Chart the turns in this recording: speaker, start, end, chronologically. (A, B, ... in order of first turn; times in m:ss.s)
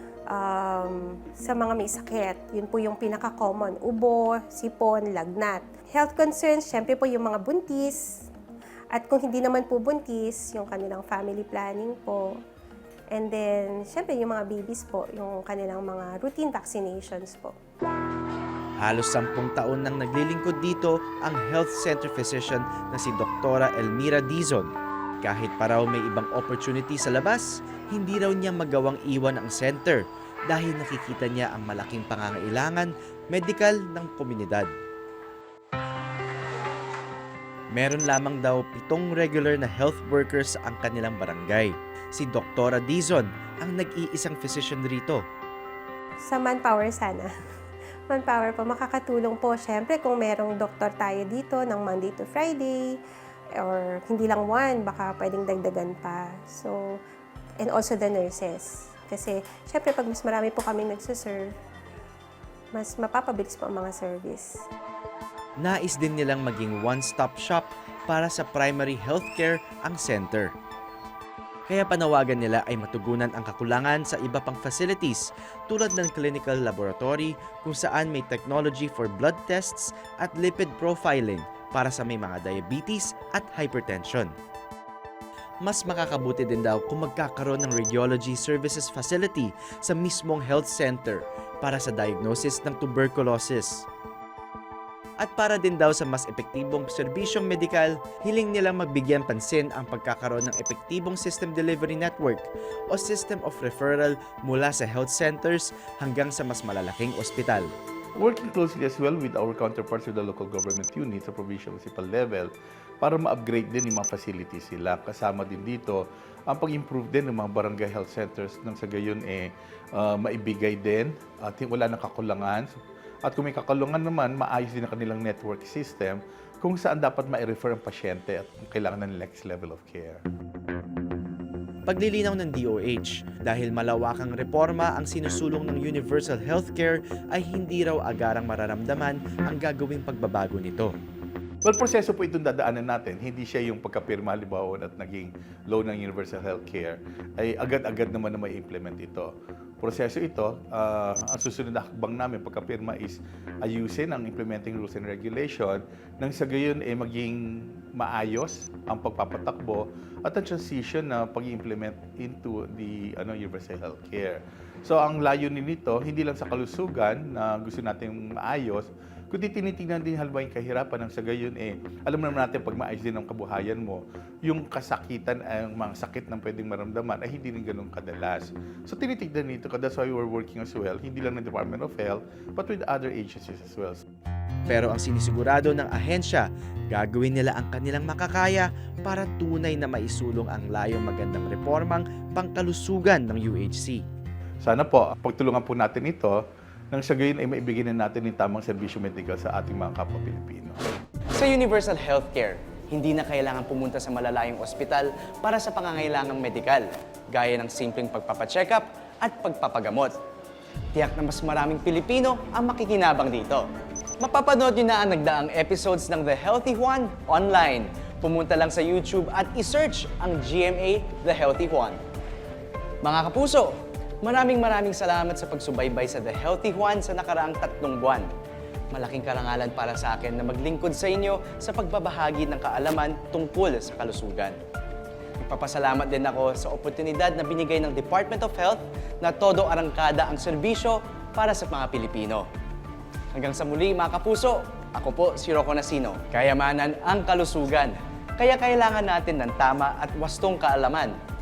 0:00.3-0:08.0 A
0:08.9-0:12.4 A
0:13.1-0:17.6 A
0:18.8-0:24.7 B
0:25.2-0:34.7 B
0:37.7-0:45.2 B
0:46.3-0:47.3 A
0:48.1-0:53.0 A
0:53.6-0:57.0 A
0:57.6-1:01.5 A
1:02.7-1:04.6 A
1:05.6-1:10.5 B
1:11.7-1:24.3 B
1:25.6-1:33.9 B
1:35.2-1:47.7 B
1:48.2-2:10.2 C
2:11.9-2:20.9 B
2:21.6-2:29.3 C
2:29.8-2:37.4 C
2:38.0-3:04.0 C
3:04.7-3:14.0 B
3:14.6-3:16.4 C
3:16.9-3:20.8 C
3:21.4-3:30.2 D
3:31.0-3:33.7 D
3:34.2-3:42.0 D
3:43.0-3:48.3 D
3:48.9-3:54.6 D
3:55.4-4:02.5 D
4:03.4-4:11.2 D